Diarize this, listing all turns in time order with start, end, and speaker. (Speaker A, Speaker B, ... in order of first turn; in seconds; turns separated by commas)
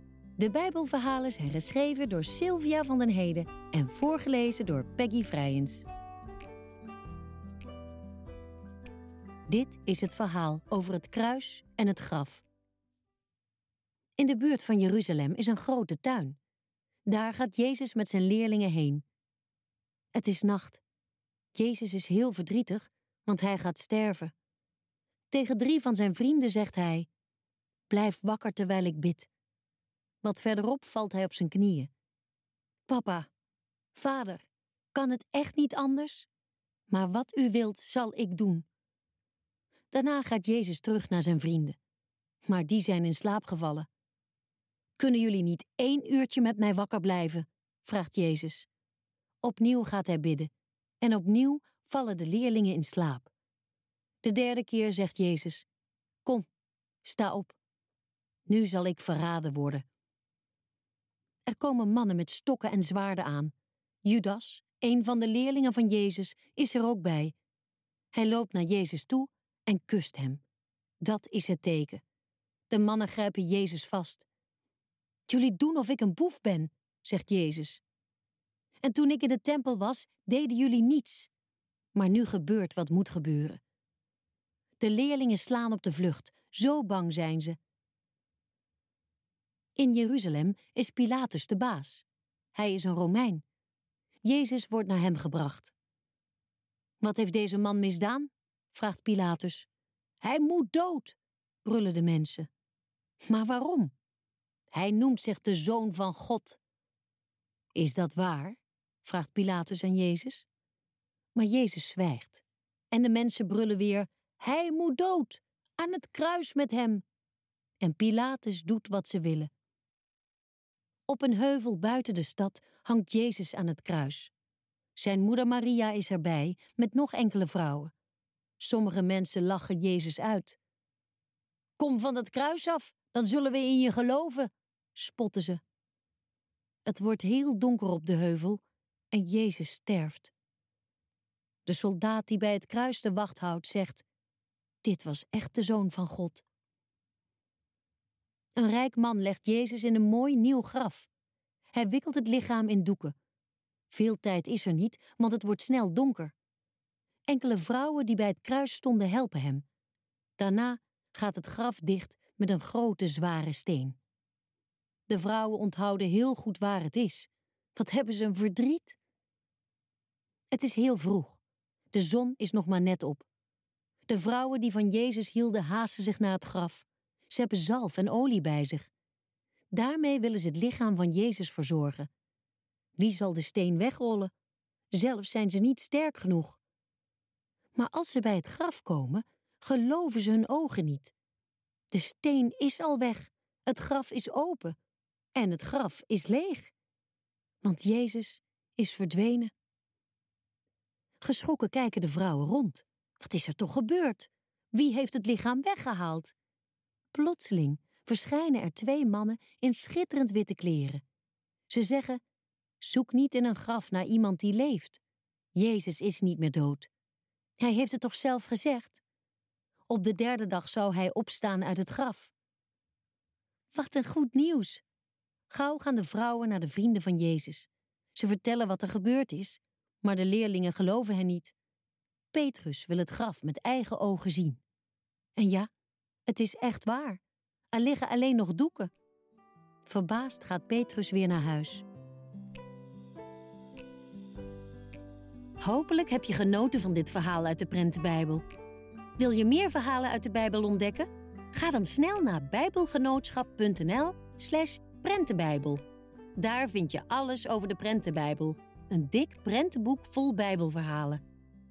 Speaker A: 0.4-5.8, Speaker A: 9.5-12.4, Speaker A: 14.2-16.4, Speaker A: 17.1-19.0, Speaker A: 20.1-20.8, Speaker A: 21.5-24.3, Speaker A: 25.3-27.1, Speaker A: 27.9-29.3, Speaker A: 30.2-31.9, Speaker A: 32.9-33.3, Speaker A: 33.9-36.3, Speaker A: 36.9-38.6, Speaker A: 39.9-41.8, Speaker A: 42.5-43.9, Speaker A: 45.0-48.7, Speaker A: 49.4-53.3, Speaker A: 54.2-55.6, Speaker A: 57.0-57.6, Speaker A: 58.5-59.8, Speaker A: 61.5-63.5, Speaker A: 64.0-67.3, Speaker A: 68.1-70.4, Speaker A: 71.0-72.0, Speaker A: 72.7-74.3, Speaker A: 75.3-77.8, Speaker A: 78.8-81.3, Speaker A: 81.9-83.6, Speaker A: 84.8-87.6, Speaker A: 89.8-93.4, Speaker A: 94.2-95.7, Speaker A: 97.0-99.7, Speaker A: 100.2-102.5, Speaker A: 103.2-103.9, Speaker A: 104.7-106.6, Speaker A: 107.7-110.5, Speaker A: 111.3-117.0, Speaker A: 117.8-119.5, Speaker A: 121.1-124.3, Speaker A: 125.0-127.9, Speaker A: 128.6-130.6, Speaker A: 131.8-135.6, Speaker A: 136.8-140.3, Speaker A: 141.7-144.0, Speaker A: 144.8-146.4, Speaker A: 148.6-151.1, Speaker A: 151.7-153.1, Speaker A: 153.9-156.3, Speaker A: 157.3-159.6, Speaker A: 160.4-164.0, Speaker A: 165.1-169.0, Speaker A: 170.5-171.4, Speaker A: 171.9-173.3, Speaker A: 174.1-178.9, Speaker A: 179.7-182.1, Speaker A: 183.0-184.3, Speaker A: 184.9-186.6, Speaker A: 187.7-191.1, Speaker A: 191.9-194.8, Speaker A: 195.3-196.7, Speaker A: 197.6-199.5, Speaker A: 201.2-206.3, Speaker A: 207.1-211.0, Speaker A: 211.7-212.2, Speaker A: 212.8-215.0, Speaker A: 215.5-216.9, Speaker A: 217.6-219.0, Speaker A: 219.9-222.3, Speaker A: 223.7-224.8, Speaker A: 225.5-231.5, Speaker A: 232.3-234.6, Speaker A: 235.3-235.7, Speaker A: 236.3-238.9, Speaker A: 239.8-241.8, Speaker A: 245.6-248.4, Speaker A: 249.2-255.8, Speaker A: 256.4-261.2